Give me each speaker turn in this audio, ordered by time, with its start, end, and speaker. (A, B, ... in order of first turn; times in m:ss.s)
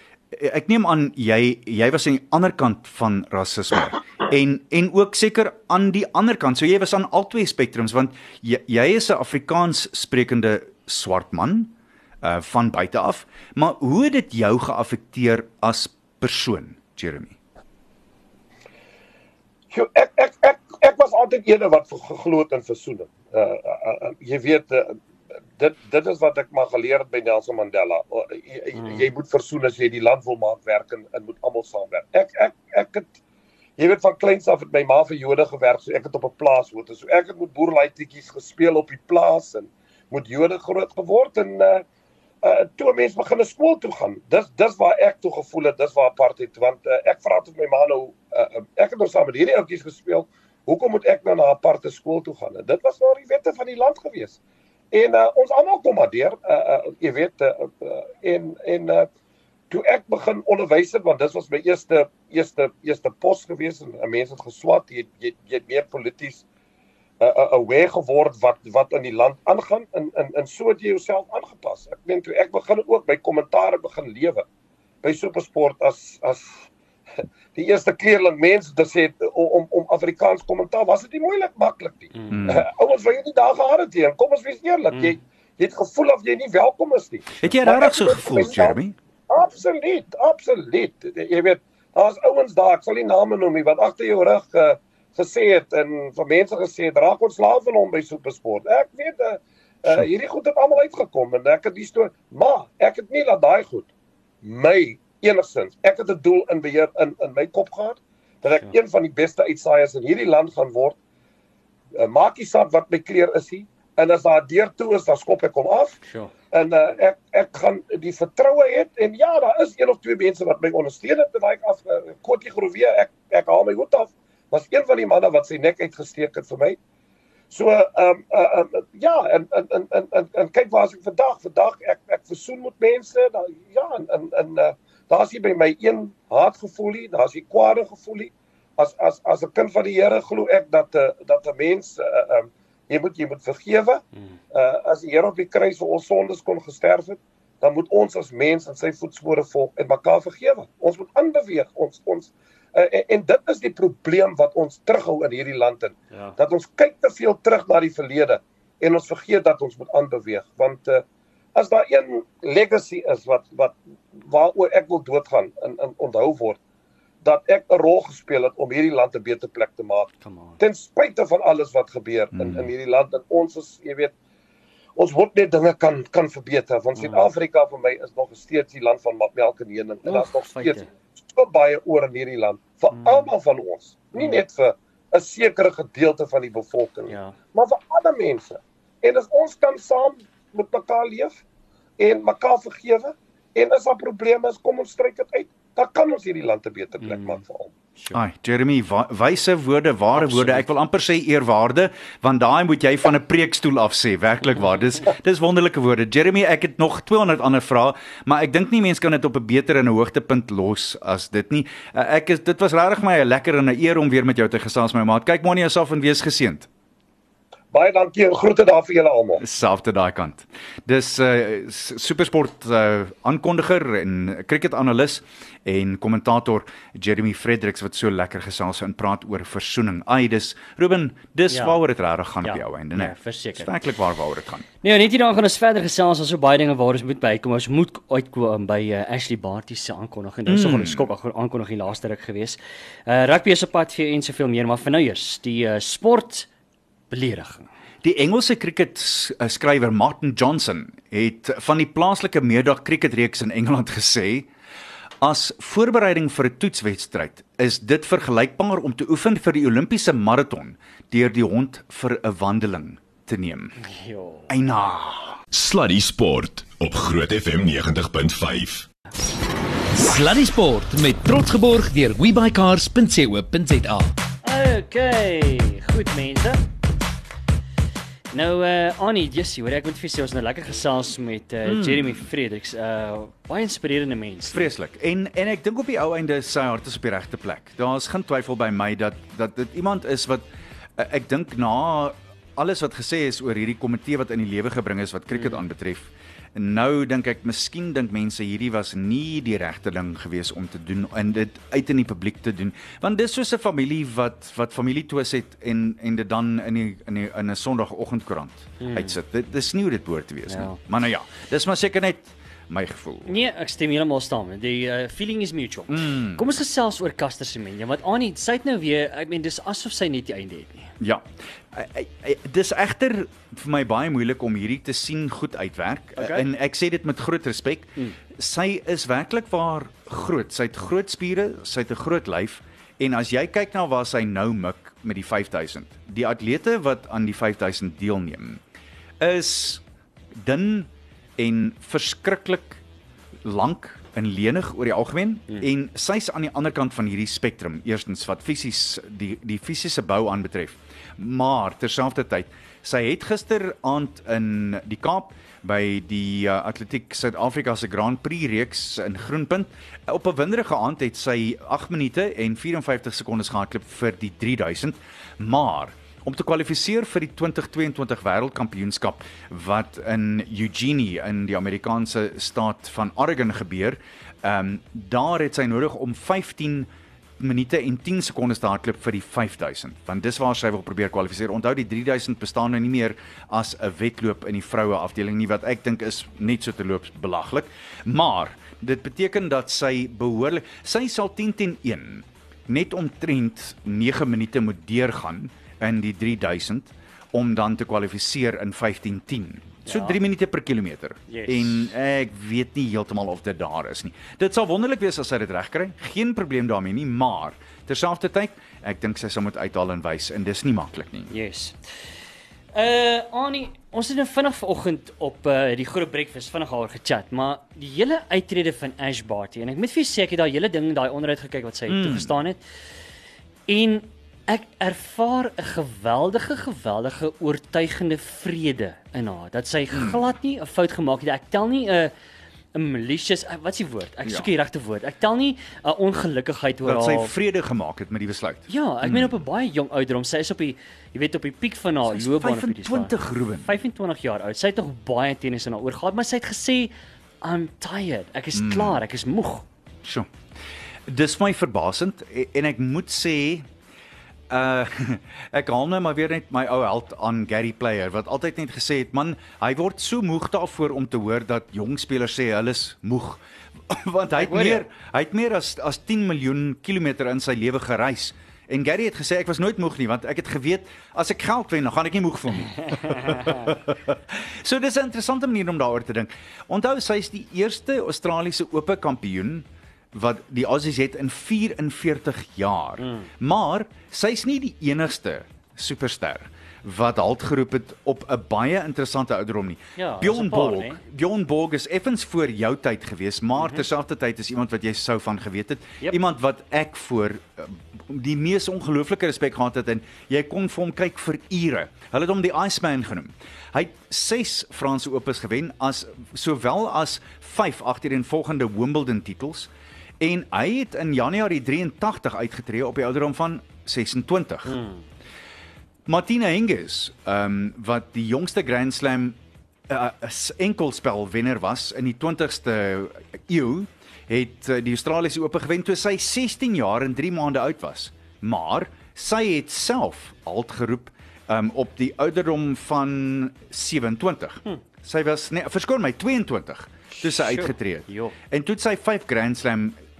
0:00.3-0:17.4 A
0:19.7-0:25.0 B
0:25.6-0:33.2 B
0:28.8-0:29.0 C
0:33.8-0:41.8 B
0:42.4-0:54.4 B
0:54.9-0:59.1 B
0:59.7-1:06.4 B
1:07.2-1:14.4 B
1:15.0-1:16.7 B
1:17.6-1:43.9 B
1:22.2-1:22.4 C
1:22.3-1:22.6 A
1:27.4-1:29.0 A
1:44.4-1:51.0 B
1:51.9-1:56.0 B
1:56.0-1:56.3 C
1:56.5-2:06.8 B
2:07.5-2:41.0 B
2:41.6-2:46.6 B
2:47.2-2:50.1 B
2:50.2-2:50.6 C
2:50.6-2:54.1 B
2:55.0-3:11.4 B
2:57.0-2:57.2 C
3:00.0-3:00.9 C
3:03.0-3:03.2 C
3:07.1-3:07.4 C
3:12.0-3:17.7 B
3:17.0-3:17.4 C
3:18.1-3:36.7 A
3:20.2-3:20.7 C
3:37.7-3:39.4 B
3:39.4-3:54.7 A
3:51.5-3:51.8 C
3:52.4-3:53.8 C
3:54.8-4:06.5 C
4:00.5-4:01.1 A
4:07.1-4:07.7 C
4:08.0-4:14.5 A
4:15.2-4:23.8 A
4:23.8-4:24.5 C
4:24.5-4:25.4 A
4:25.5-4:28.9 D
4:30.0-4:34.1 E
4:34.4-4:36.6 C
4:38.3-4:44.7 C
4:41.6-4:42.3 A
4:44.5-4:50.4 A
4:51.0-5:13.3 A
4:55.4-4:55.6 C
5:08.8-5:09.2 C
5:10.5-5:10.8 C
5:13.3-5:20.9 C
5:15.9-5:16.4 A
5:21.0-5:38.6 A
5:26.2-5:26.5 C
5:39.2-5:39.8 A
5:40.4-5:42.8 A
5:43.4-6:51.3 A
6:39.9-6:40.2 C
6:41.3-6:41.9 C
6:51.3-6:51.8 C
6:52.7-7:02.6 C
7:01.9-7:02.4 A
7:03.7-7:12.1 C
7:09.9-7:10.2 A
7:12.7-7:17.3 C
7:16.8-7:19.4 A
7:18.7-7:29.6 C
7:22.1-7:23.7 A
7:28.5-7:29.0 A
7:30.0-7:30.3 A
7:31.1-7:33.7 A
7:34.5-8:34.8 A
7:44.3-7:44.8 C
7:53.2-7:53.7 C
8:03.0-8:03.3 C
8:10.0-8:11.0 C
8:13.6-8:13.8 C
8:34.7-8:35.0 C
8:36.1-8:39.4 A
8:39.9-9:00.0 A
8:57.2-8:58.4 C